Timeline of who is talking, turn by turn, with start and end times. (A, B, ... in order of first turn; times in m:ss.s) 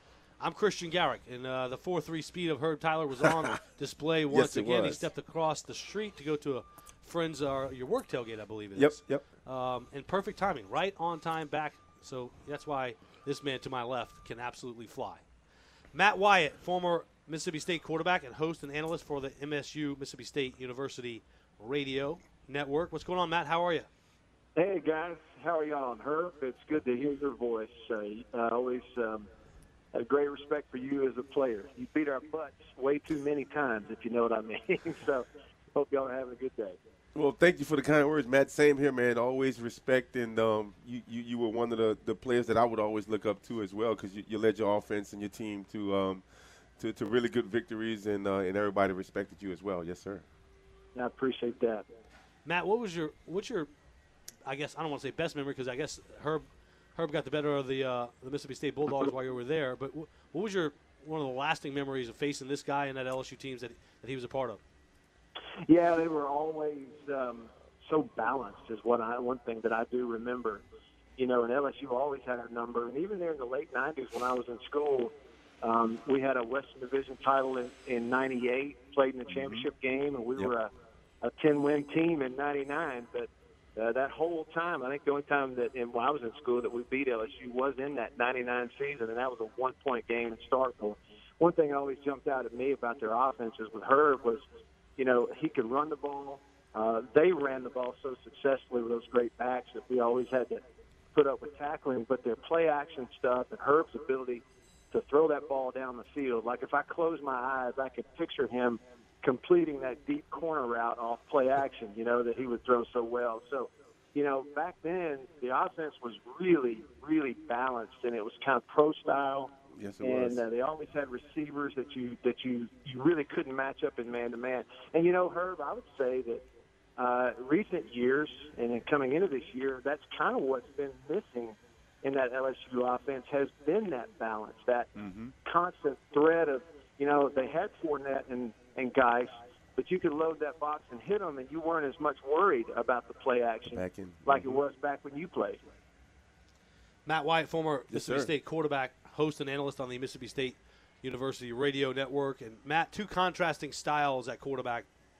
0:00.4-0:15.2 A
0:03.2-0:03.5 B
0:04.3-0:05.1 B
0:08.8-0:09.2 B
0:15.9-0:23.9 A
0:24.6-0:29.3 C
0:29.9-0:36.8 C
0:37.1-0:46.2 B
0:46.8-0:50.2 B
0:50.9-0:51.8 C
0:52.4-0:53.7 A
0:54.4-0:56.4 A
0:57.0-1:04.6 A
1:05.7-1:10.6 C
1:11.2-1:20.7 C
1:19.3-1:19.7 B
1:21.2-1:34.4 C
1:35.0-1:40.6 C
1:41.1-1:59.5 C
1:59.7-2:00.4 B
2:00.0-2:06.4 C
2:07.0-2:14.9 C
2:15.0-2:15.3 B
2:15.4-2:25.6 C
2:23.7-2:24.6 B
2:27.0-2:34.9 A
2:27.9-2:28.3 B